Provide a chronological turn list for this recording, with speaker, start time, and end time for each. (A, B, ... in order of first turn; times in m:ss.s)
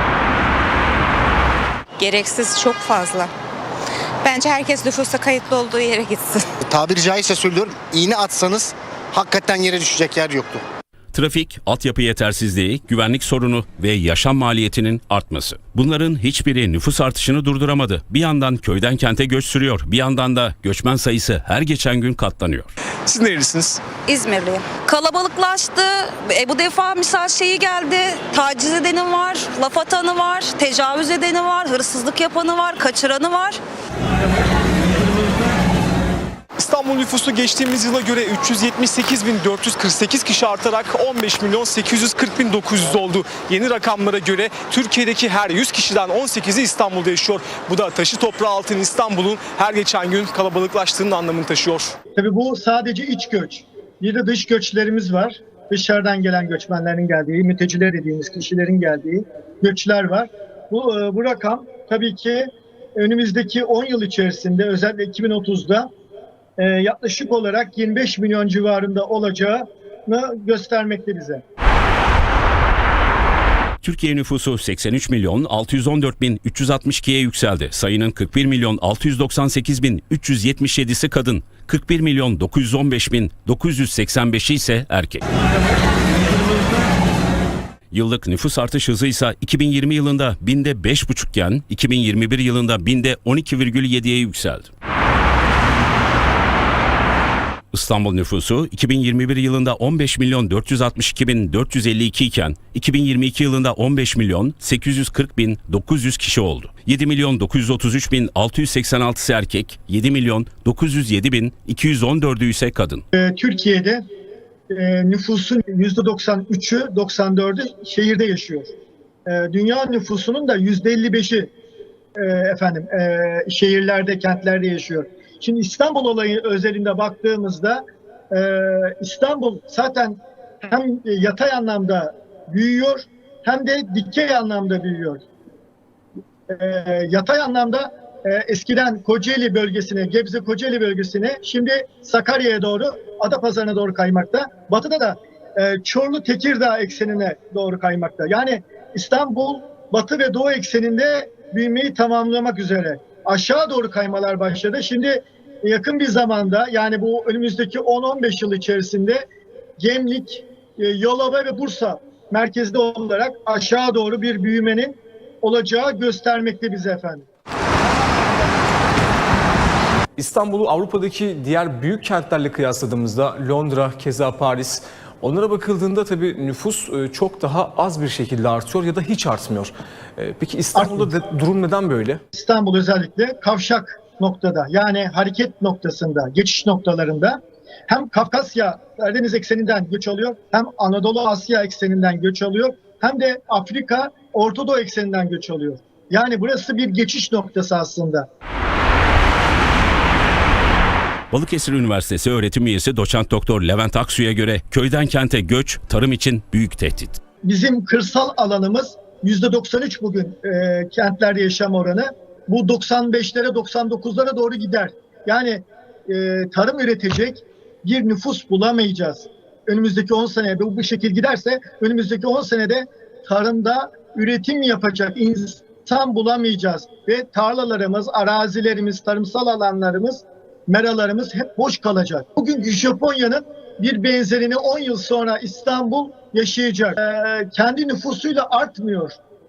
0:02.0-0:03.3 A
0:04.2-0:06.5 A
0:06.6-0:10.6 B
0:11.1-0:22.7 C
0:23.1-0:23.8 D
0:24.1-0:33.6 A
0:36.6-0:52.0 D
0:52.2-1:05.9 E
1:06.6-1:11.4 E
1:13.8-1:25.2 C
1:27.9-1:34.7 C
1:37.7-1:53.0 C
1:53.1-1:54.1 E
1:54.7-1:58.7 E
1:59.3-2:01.5 E
2:02.2-2:15.2 E
2:16.5-2:39.2 E
2:39.8-2:47.2 E
2:50.2-3:02.2 D
3:00.8-3:01.1 E
3:02.3-3:18.3 E
3:21.3-3:27.2 C
3:27.4-3:59.2 E